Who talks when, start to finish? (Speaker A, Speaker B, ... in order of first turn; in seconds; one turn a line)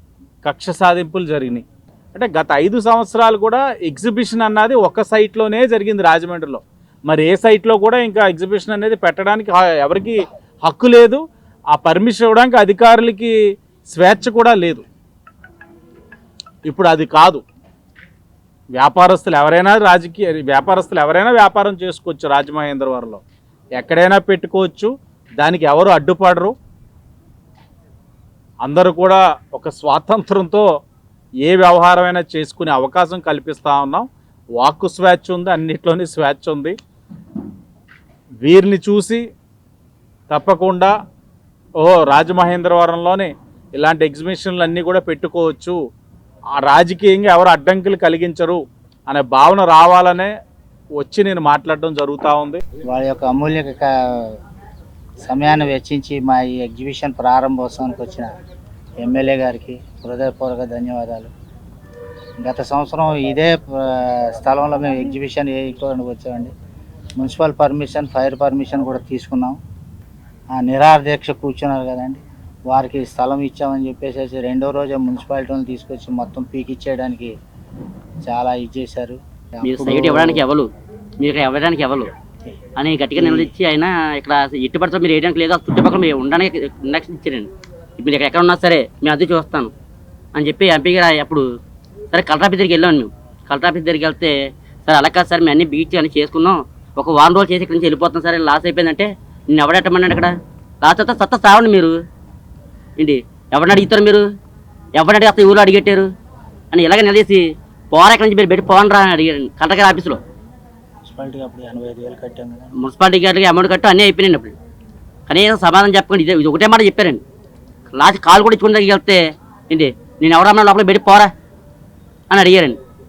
Speaker A: 0.4-14.8
Speaker A: 16.6-17.4
Speaker A: 18.8-23.2
Speaker A: 23.8-26.5
Speaker A: 28.6-30.6
Speaker A: 31.4-34.0
Speaker A: 34.6-36.8
Speaker A: 38.4-39.2
Speaker A: 40.3-40.9
Speaker A: 41.8-45.8
Speaker A: 46.6-50.3
Speaker A: 51.0-52.6
Speaker B: 52.8-54.4
Speaker B: 55.2-58.3
Speaker B: 59.0-61.3
Speaker B: 62.4-66.5
Speaker B: 67.2-69.6
Speaker B: 70.5-77.3
Speaker B: 78.2-80.4
Speaker C: 79.6-80.7
Speaker C: 81.2-82.1
Speaker C: 82.8-89.7
Speaker B: 83.2-83.5
Speaker C: 90.3-91.4
Speaker C: 92.1-94.3
Speaker C: 94.9-101.9
Speaker C: 103.0-104.2
Speaker C: 104.9-106.1
Speaker C: 106.7-110.2
Speaker B: 111.0-112.7
Speaker C: 112.8-114.5
Speaker C: 115.3-117.2
Speaker C: 117.9-119.2
Speaker C: 119.7-121.3
Speaker C: 122.3-122.8